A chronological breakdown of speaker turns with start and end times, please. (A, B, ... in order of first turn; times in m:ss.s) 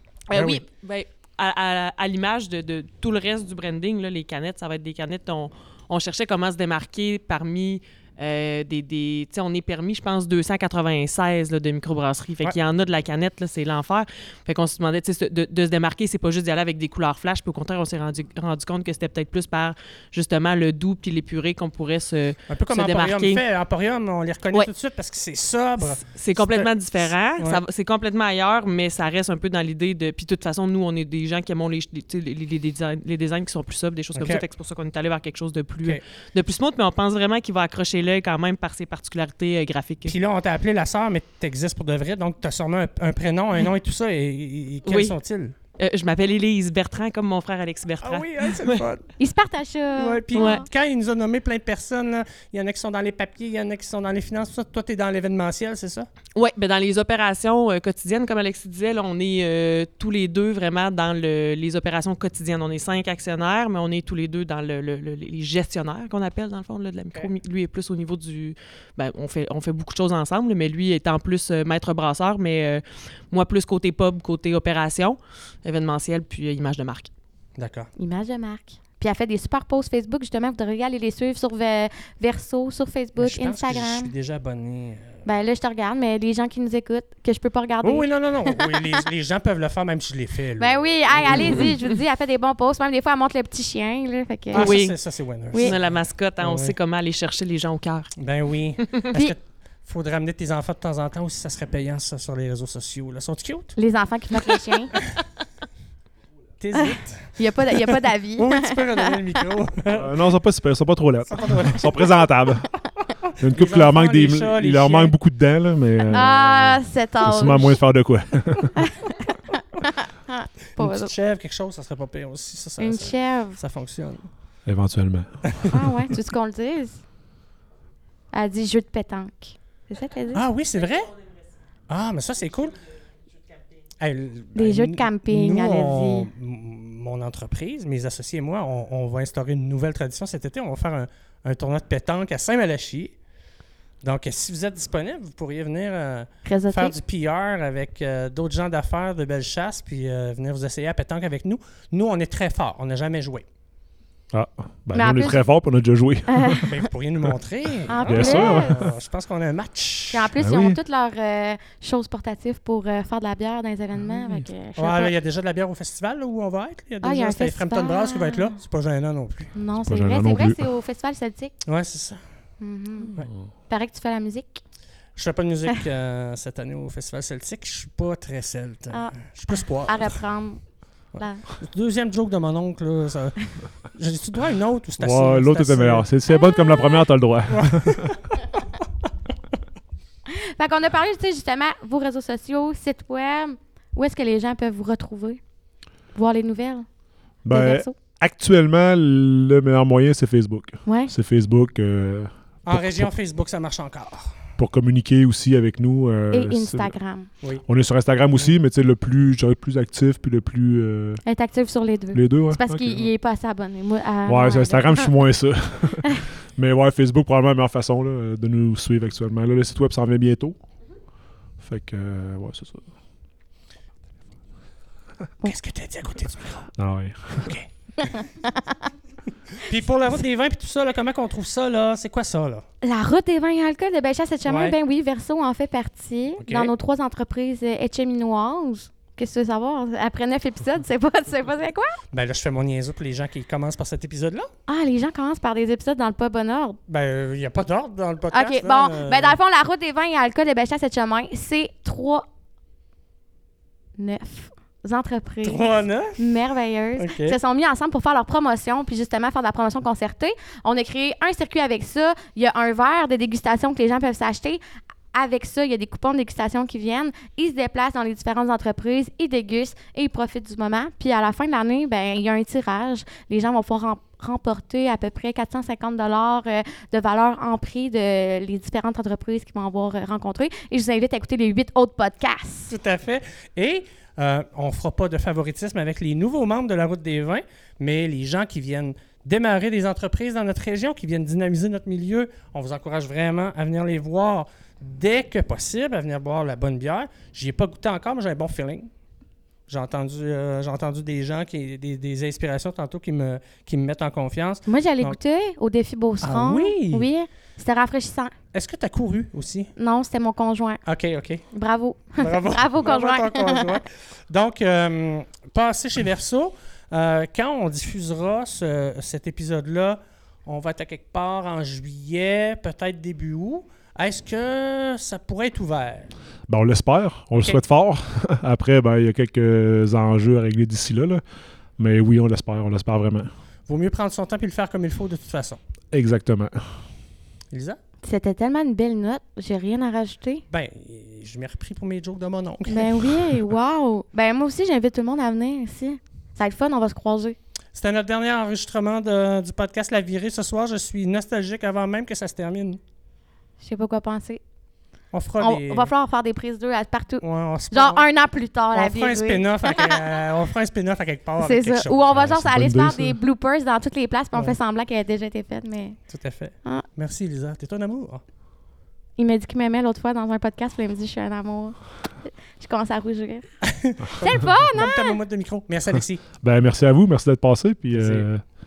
0:00.3-0:23.4 A
0:00.3-0:00.6 B
0:22.5-0:27.6 B
0:26.2-0:40.2 A
0:34.2-0:34.4 B
0:40.1-0:45.6 B
0:44.8-0:45.2 A
0:45.8-0:48.8 A
0:48.0-0:49.1 B
0:49.2-0:50.7 C
0:50.0-0:56.1 B
0:50.3-0:50.6 A
0:56.4-1:17.1 A
1:17.6-1:17.9 B
1:18.0-1:24.1 C
1:23.2-1:25.2 B
1:25.2-1:28.8 C
1:27.8-1:31.8 B
1:30.6-1:34.8 C
1:31.4-1:31.7 A
1:34.5-1:36.8 B
1:34.5-1:35.0 A
1:35.6-1:38.1 A
1:38.2-1:43.8 B
1:43.8-1:45.0 C
1:46.6-1:50.2 B
1:46.7-1:49.4 C
1:49.9-1:52.7 D
1:51.3-1:52.3 B
1:53.4-1:58.8 D
1:53.4-1:55.1 B
1:56.1-1:57.8 C
1:58.8-2:01.1 C
2:00.8-2:04.3 B
2:02.8-2:03.6 C
2:04.7-2:05.7 D
2:05.7-2:07.0 C
2:08.3-2:10.4 C
2:10.3-2:11.2 B
2:11.9-2:12.8 B
2:14.0-2:23.2 B
2:14.6-2:16.3 C
2:24.0-2:33.4 B
2:26.4-2:27.0 C
2:34.3-2:36.7 D
2:34.9-2:35.4 C
2:36.3-2:36.8 C
2:36.7-2:40.3 B
2:37.9-2:38.8 C
2:38.1-2:38.9 D
2:40.1-2:45.1 C
2:40.4-2:40.8 D
2:44.8-2:49.5 B
2:47.0-2:48.6 C
2:49.6-2:51.5 C
2:49.8-2:50.6 D
2:51.6-2:52.2 B
2:52.6-2:53.2 C
2:53.7-2:54.6 C
2:55.2-3:00.2 B
2:58.9-2:59.2 C
2:59.8-3:00.6 C
3:01.2-3:01.4 C
3:01.6-3:06.1 B
3:05.0-3:08.3 D
3:06.3-3:07.0 C
3:07.5-3:08.2 B
3:10.3-3:15.4 C
3:16.1-3:16.9 C
3:17.4-3:23.1 D
3:17.5-3:17.9 C
3:20.8-3:21.1 C
3:22.7-3:24.4 B
3:24.6-3:26.9 D
3:26.3-3:27.3 C
3:27.7-3:31.2 D
3:31.2-3:35.2 C
3:32.1-3:33.1 D
3:34.3-3:40.6 D
3:41.6-3:42.8 D
3:45.4-3:46.7 B
3:46.8-3:47.6 D
3:47.3-3:48.1 B
3:48.0-3:48.8 C
3:49.6-3:52.6 B
3:52.8-4:02.0 C
3:54.5-3:54.8 B
3:56.4-3:56.7 B
4:02.1-4:04.5 B
4:04.7-4:06.8 C
4:06.9-4:09.4 B
4:08.3-4:12.2 C
4:14.0-4:24.6 C
4:15.4-4:16.2 B
4:17.0-4:17.4 B
4:25.1-4:42.8 C
4:42.7-4:58.9 B
4:59.7-5:05.2 B
5:04.7-5:08.3 C
5:06.2-5:07.1 B
5:08.5-5:09.7 B
5:09.8-5:10.8 C
5:10.9-5:11.4 B
5:11.5-5:13.8 C
5:12.2-5:26.1 B
5:26.5-5:31.2 D
5:31.8-5:33.3 D
5:33.7-5:35.6 B
5:35.9-5:36.6 D
5:37.5-5:37.8 B
5:38.0-5:40.4 C
5:40.5-5:43.2 B
5:42.7-5:47.4 C
5:47.8-5:52.8 B
5:53.6-5:54.4 C
5:55.1-5:55.9 B
5:55.4-6:00.2 C
5:57.2-5:58.0 B
5:58.7-6:02.1 B
6:01.4-6:06.0 C
6:02.1-6:03.2 D
6:06.1-6:08.2 B
6:09.2-6:13.5 C
6:13.7-6:16.2 B
6:14.1-6:15.2 C
6:16.4-6:18.4 D
6:17.9-6:18.3 B